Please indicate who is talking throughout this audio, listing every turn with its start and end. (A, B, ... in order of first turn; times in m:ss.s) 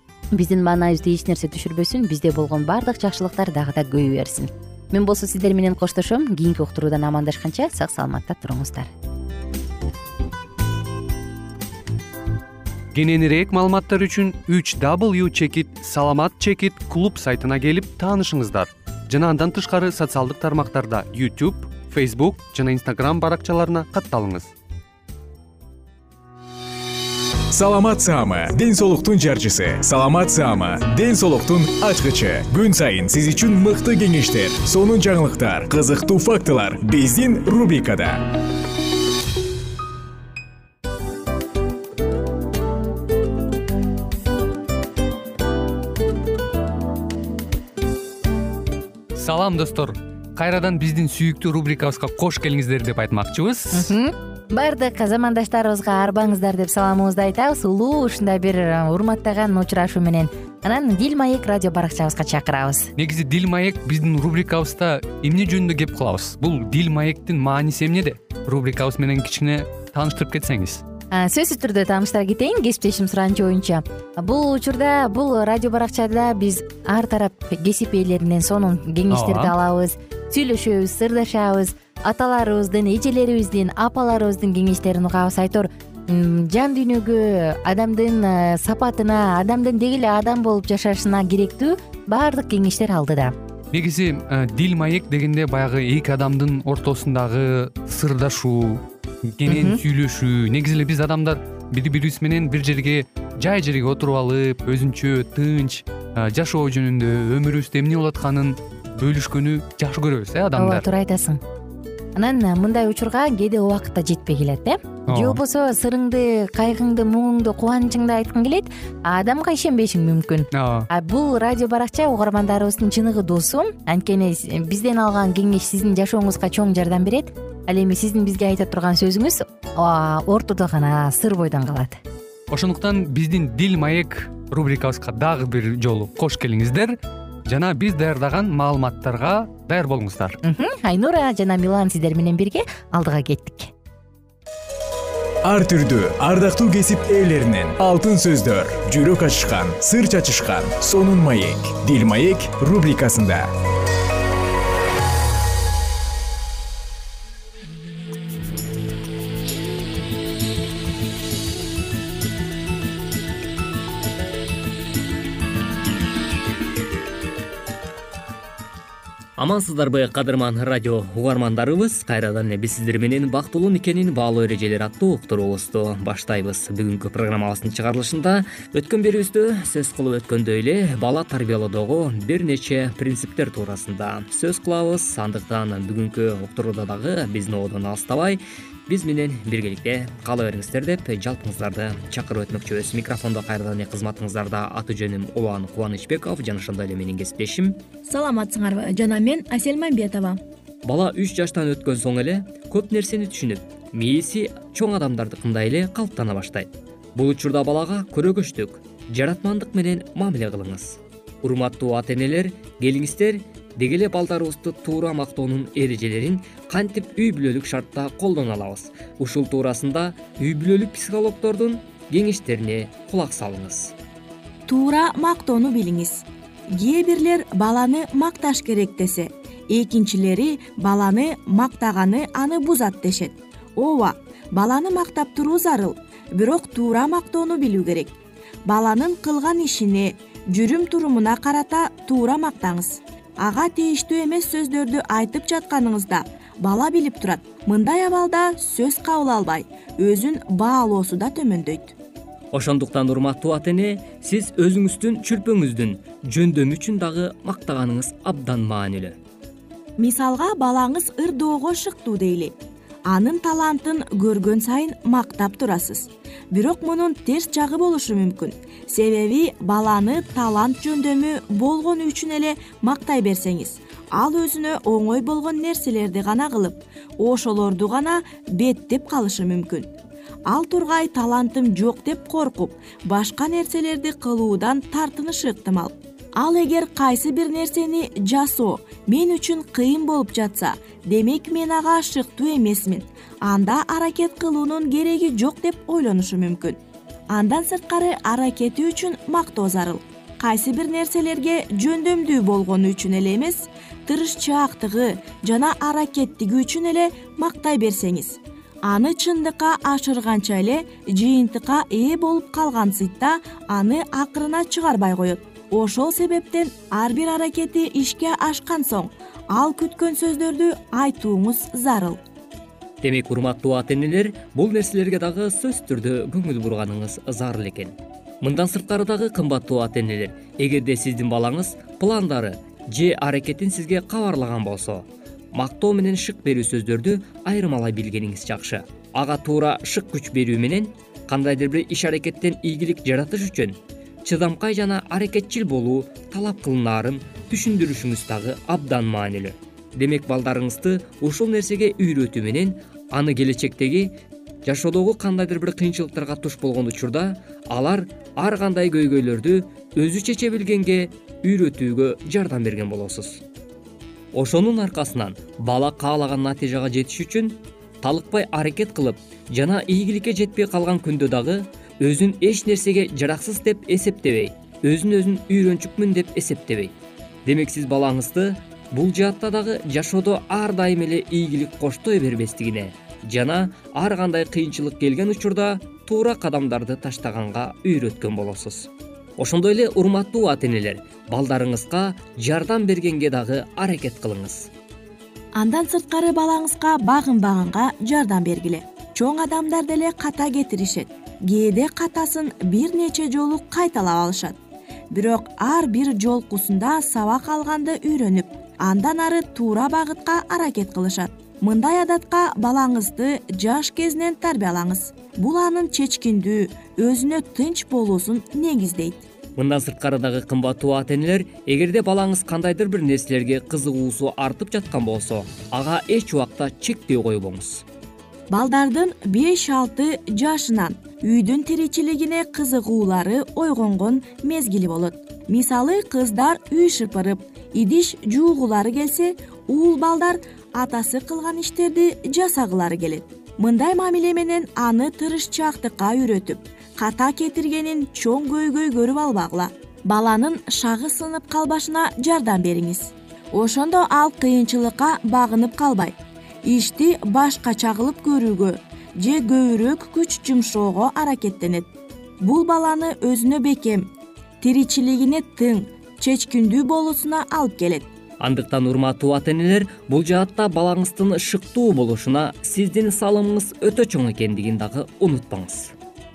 0:00.3-0:08.9 A
0:12.9-0:24.5 B
0:27.5-0:38.3 C
0:49.2-0:54.0 B
0:53.7-1:02.9 A
1:03.0-1:10.8 B
1:11.1-1:33.3 A
1:19.1-1:19.5 B
1:33.7-1:50.8 B
1:39.5-1:39.8 A
1:50.6-1:51.4 A
1:52.2-2:12.0 A
1:55.1-1:55.4 B
2:00.5-2:00.9 B
2:12.5-2:17.0 B
2:17.5-2:20.4 B
2:20.4-2:23.7 A
2:25.4-2:33.5 C
2:49.4-3:17.8 D
3:18.1-3:20.4 E
3:20.8-3:43.9 D
3:44.7-3:58.1 E
3:58.7-4:12.0 E
4:12.5-4:19.2 D
4:20.0-4:22.6 E
4:23.1-4:39.9 E
4:40.5-5:22.2 E
5:23.0-6:03.4 D
6:04.3-6:16.9 D
6:17.5-6:34.7 D
6:35.6-6:44.6 E
6:45.1-6:59.2 E
6:59.6-7:07.8 D
7:08.5-7:48.1 E
7:48.4-7:55.9 D